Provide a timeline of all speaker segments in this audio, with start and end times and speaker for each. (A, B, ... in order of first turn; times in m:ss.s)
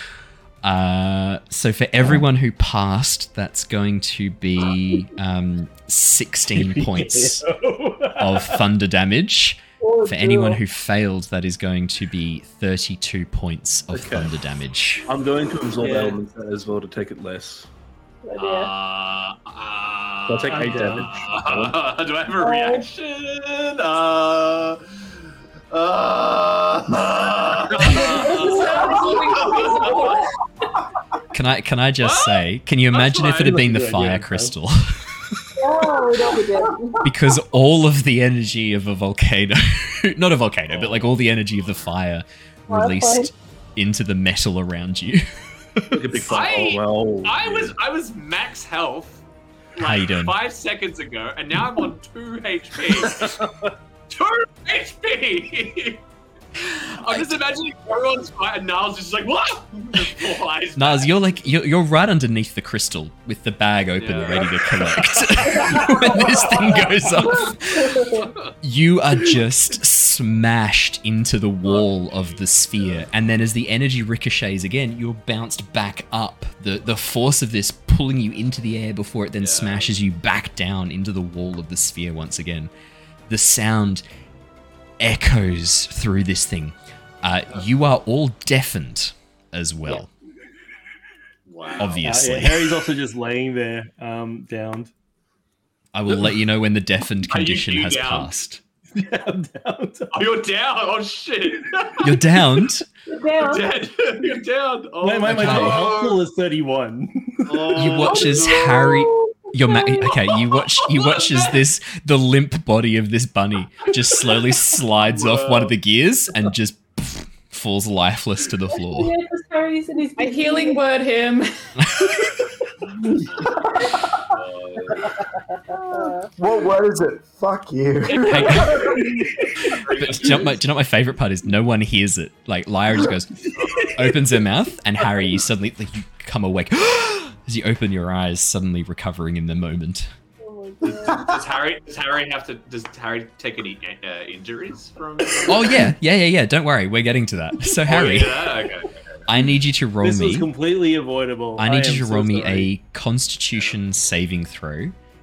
0:00.6-0:07.4 A
0:06.5-0:08.6 B
0:08.2-0:15.0 A
0:09.8-0:10.6 C
0:13.9-0:14.3 D
0:15.0-0:17.7 D
0:15.7-0:16.2 B
0:18.2-0:18.7 C
0:18.4-0:25.2 E
0:20.3-0:21.8 D
0:20.5-0:21.2 B
0:22.3-0:22.9 C
0:25.7-0:30.1 E
0:27.8-0:29.7 C
0:27.8-0:30.2 F
0:31.3-0:35.4 A
0:32.0-0:33.6 E
0:33.4-0:34.5 B
0:35.6-0:37.1 C
0:37.0-0:46.0 A
0:40.7-0:41.8 E
0:42.7-0:43.3 C
0:45.9-0:47.7 D
0:46.1-0:49.2 E
0:49.8-0:53.4 E
0:49.8-0:50.3 A
0:53.0-0:53.7 D
0:54.1-0:56.0 E
0:56.6-1:01.2 E
0:57.0-0:57.5 A
1:00.8-1:22.7 A
1:04.0-1:06.5 E
1:05.5-1:06.2 C
1:07.4-1:08.2 C
1:08.1-1:08.5 E
1:11.6-1:13.0 E
1:19.4-1:19.9 E
1:23.3-1:24.0 A
1:25.0-1:30.1 A
1:31.5-1:32.0 E
1:31.8-1:32.8 A
1:32.0-1:34.9 B
1:35.9-1:38.6 A
1:37.3-1:38.3 E
1:38.9-1:40.3 B
1:40.1-1:42.4 E
1:42.0-1:42.8 A
1:43.1-1:43.7 C
1:43.4-1:46.2 E
1:45.0-1:47.7 B
1:45.3-1:45.8 A
1:47.5-1:48.4 E
1:47.7-1:59.1 A
1:47.9-1:50.6 C
1:50.9-1:51.5 E
1:58.8-2:00.8 C
2:00.2-2:01.5 F
2:01.8-2:02.3 A
2:03.2-2:05.1 E
2:05.7-2:06.3 C
2:06.4-2:09.0 G
2:08.2-2:08.9 A
2:08.3-2:09.1 C
2:08.5-2:09.1 E
2:09.7-2:10.6 E
2:09.9-2:20.1 A
2:13.5-2:14.1 E
2:20.4-2:21.3 C
2:20.8-2:25.9 E
2:25.4-2:28.5 A
2:27.9-2:29.2 E
2:29.3-2:30.5 A
2:30.0-2:32.7 B
2:31.6-2:34.9 A